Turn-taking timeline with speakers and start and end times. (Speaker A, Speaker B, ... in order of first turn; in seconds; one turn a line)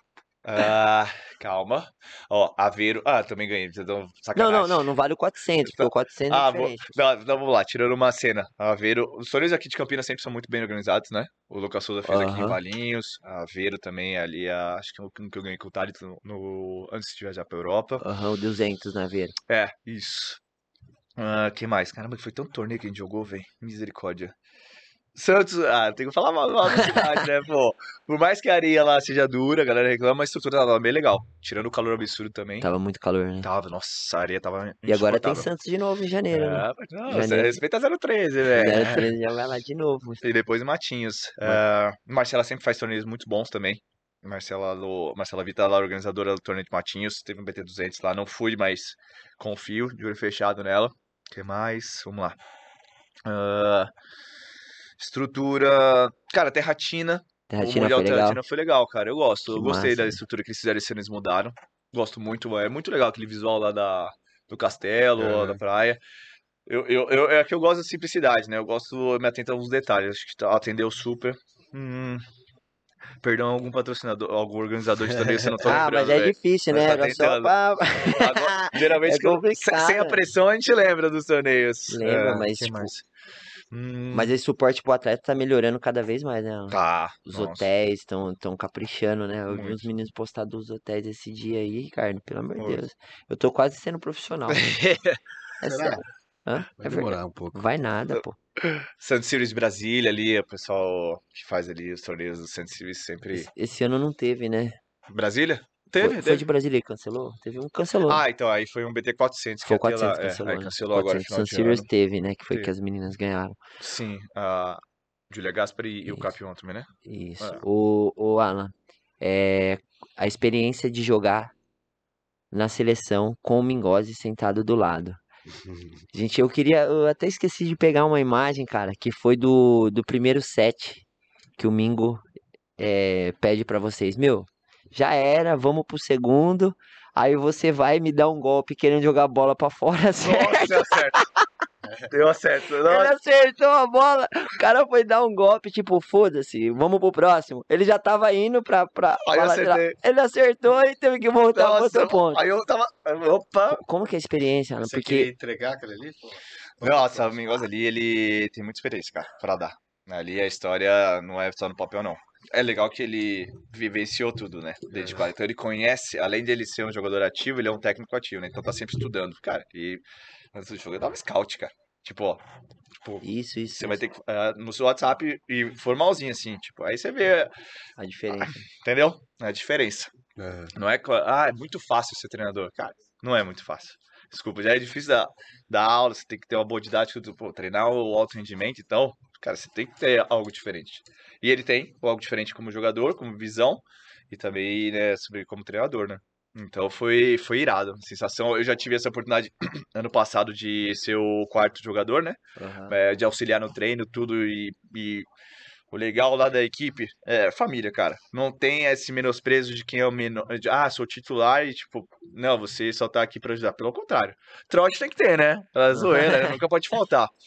Speaker A: 0.5-4.8
Speaker B: 4.3-6.9
Speaker A: 5.6-18.0
Speaker B: 12.1-12.6
Speaker B: 18.0-19.4
Speaker A: 19.5-20.4
Speaker A: 21.2-24.3
Speaker A: 25.1-32.7
Speaker B: 26.7-27.0
Speaker B: 32.6-33.5
Speaker A: 33.4-35.5
Speaker B: 34.9-37.6
Speaker A: 36.3-39.1
Speaker B: 38.5-40.2
Speaker A: 40.2-52.4
Speaker A: 53.2-53.9
Speaker A: 55.0-66.0
Speaker B: 57.5-58.4
Speaker B: 59.5-60.2
Speaker C: 65.2-65.6
Speaker A: 66.7-72.2
Speaker A: 73.2-83.0
Speaker C: 75.2-75.5
Speaker B: 75.6-80.2
Speaker B: 81.9-82.9
Speaker A: 83.7-84.3
Speaker B: 84.1-86.8
Speaker A: 86.7-87.7
Speaker B: 87.3-94.9
Speaker A: 89.5-89.8
Speaker A: 94.5-95.2
Speaker B: 95.6-98.4
Speaker C: 95.6-96.0
Speaker C: 96.8-97.6
Speaker A: 98.6-103.5
Speaker B: 103.3-104.8
Speaker A: 105.1-106.5
Speaker B: 106.0-108.2
Speaker A: 108.1-111.9
Speaker B: 109.7-113.6
Speaker A: 113.8-117.6
Speaker B: 117.0-121.5
Speaker B: 122.5-125.2
Speaker C: 125.5-126.0
Speaker B: 126.1-131.1
Speaker B: 131.6-132.2
Speaker B: 132.8-141.2
Speaker A: 140.2-141.2
Speaker A: 142.1-143.1
Speaker B: 142.9-152.4
Speaker A: 149.2-150.0
Speaker A: 151.6-153.8
Speaker B: 153.7-155.3
Speaker C: 154.8-157.3
Speaker A: 156.8-170.0
Speaker C: 165.0-165.2
Speaker A: 170.5-172.4
Speaker A: 173.0-177.5
Speaker B: 173.2-174.0
Speaker B: 178.0-178.6
Speaker A: 178.3-180.1
Speaker C: 180.4-180.7
Speaker A: 180.8-205.3
Speaker B: 202.6-202.9
Speaker A: 205.9-217.3
Speaker B: 215.9-216.5